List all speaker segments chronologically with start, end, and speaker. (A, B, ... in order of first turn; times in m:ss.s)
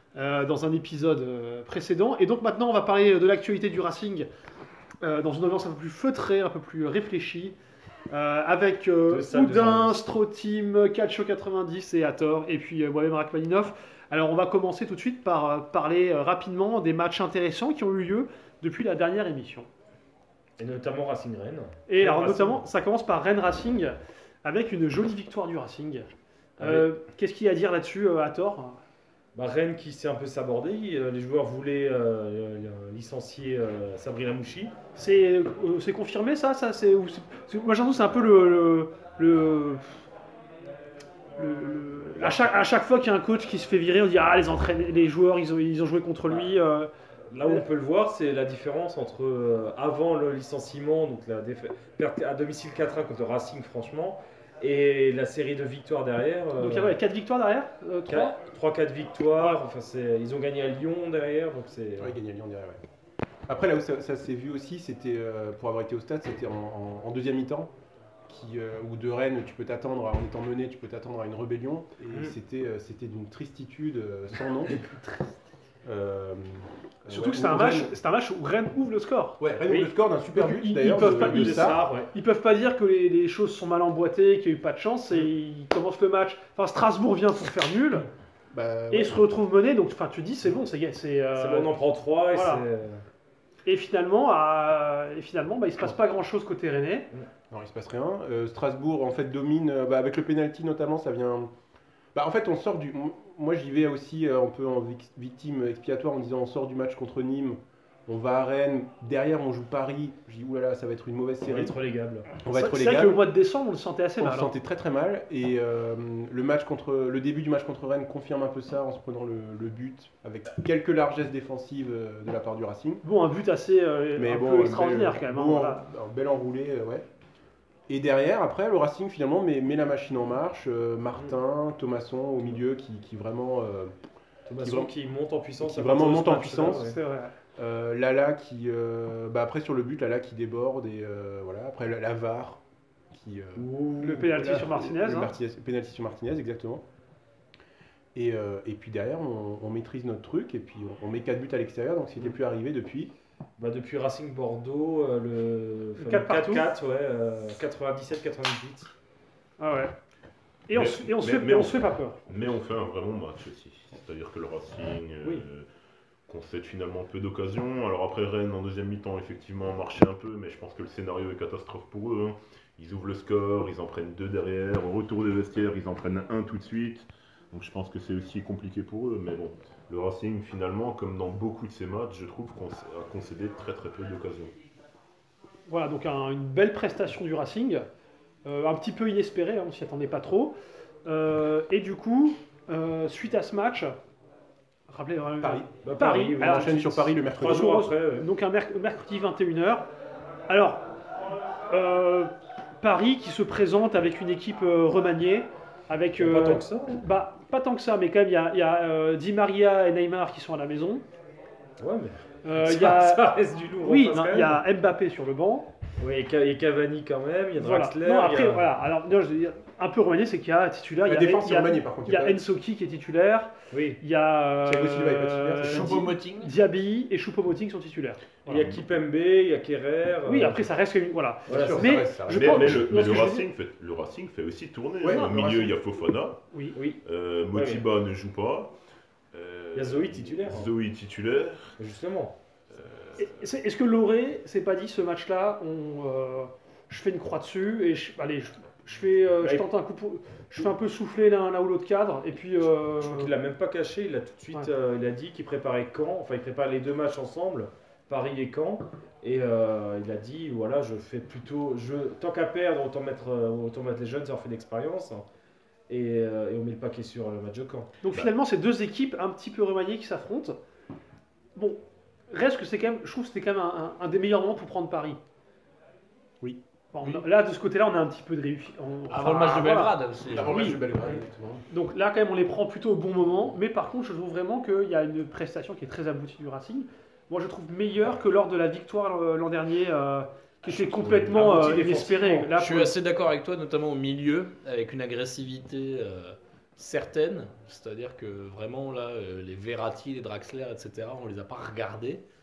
0:00.2-0:04.3 A
0:05.0-0:07.6 A
0:08.1-0:19.7 A
0:09.1-0:10.0 B
0:20.6-0:22.6 B
0:21.9-0:26.1 A
0:26.6-0:26.9 B
0:26.6-0:28.8 A
0:29.4-0:34.7 B
0:35.0-0:40.0 A
0:41.4-0:46.9 A
0:47.3-0:57.0 B
0:56.6-0:58.4 A
0:58.1-1:02.2 B
1:02.0-1:02.8 C
1:03.5-1:07.7 C
1:08.3-1:14.8 C
1:14.6-1:15.1 B
1:15.8-1:17.9 C
1:17.1-1:19.4 A
1:19.4-1:21.8 C
1:19.6-1:19.9 B
1:20.3-1:28.1 A
1:20.9-1:22.1 B
1:28.5-1:29.2 C
1:28.9-1:31.8 A
1:31.4-1:33.0 B
1:32.3-1:32.6 A
1:33.6-1:37.1 A
1:37.5-1:41.5 C
1:42.2-1:51.8 C
1:51.5-1:52.3 B
1:52.4-1:53.3 C
1:52.5-1:54.5 A
1:54.2-2:03.0 C
2:03.0-2:05.8 A
2:04.2-2:07.1 C
2:07.9-2:13.9 C
2:14.5-2:17.0 B
2:14.6-2:14.9 C
2:15.6-2:16.8 C
2:16.7-2:17.3 A
2:17.6-2:22.6 C
2:23.1-2:23.7 C
2:23.6-2:24.7 B
2:24.0-2:25.3 A
2:24.2-2:26.8 C
2:28.2-2:33.1 C
2:33.6-2:38.9 B
2:36.0-2:36.7 A
2:39.6-2:39.9 A
2:40.7-2:42.2 A
2:40.7-2:41.8 D
2:42.3-2:45.7 D
2:46.3-3:04.5 D
3:05.7-3:07.9 A
3:08.4-3:10.6 A
3:11.1-3:14.0 A
3:14.9-3:19.8 A
3:15.4-3:15.7 C
3:15.8-3:18.3 B
3:16.4-3:17.8 C
3:20.5-3:20.9 A
3:21.7-3:31.0 A
3:26.2-3:27.1 B
3:31.8-3:34.6 B
3:32.4-3:35.7 A
3:36.0-3:38.6 B
3:37.6-3:48.5 A
3:41.0-3:42.4 C
3:43.7-3:44.0 B
3:44.6-3:46.2 C
3:45.6-3:46.5 E
3:48.5-3:50.7 B
3:48.5-3:48.8 D
3:50.3-3:53.4 A
3:51.5-3:52.1 B
3:51.5-3:53.0 C
3:52.3-3:56.4 D
3:55.0-3:55.8 C
3:56.8-3:57.0 B
3:57.0-3:58.7 D
3:57.5-3:57.8 B
3:59.3-4:01.8 D
3:59.8-4:00.7 B
4:01.8-4:02.4 B
4:02.7-4:03.3 D
4:03.2-4:13.3 A
4:09.4-4:09.7 B
4:13.0-4:25.2 B
4:25.9-4:27.9 B
4:28.0-4:30.6 A
4:32.3-4:35.2 A
4:36.9-4:40.8 A
4:39.1-4:40.8 E
4:40.2-4:41.6 C
4:41.7-4:52.9 A
4:50.7-4:52.5 B
4:52.6-5:02.2 E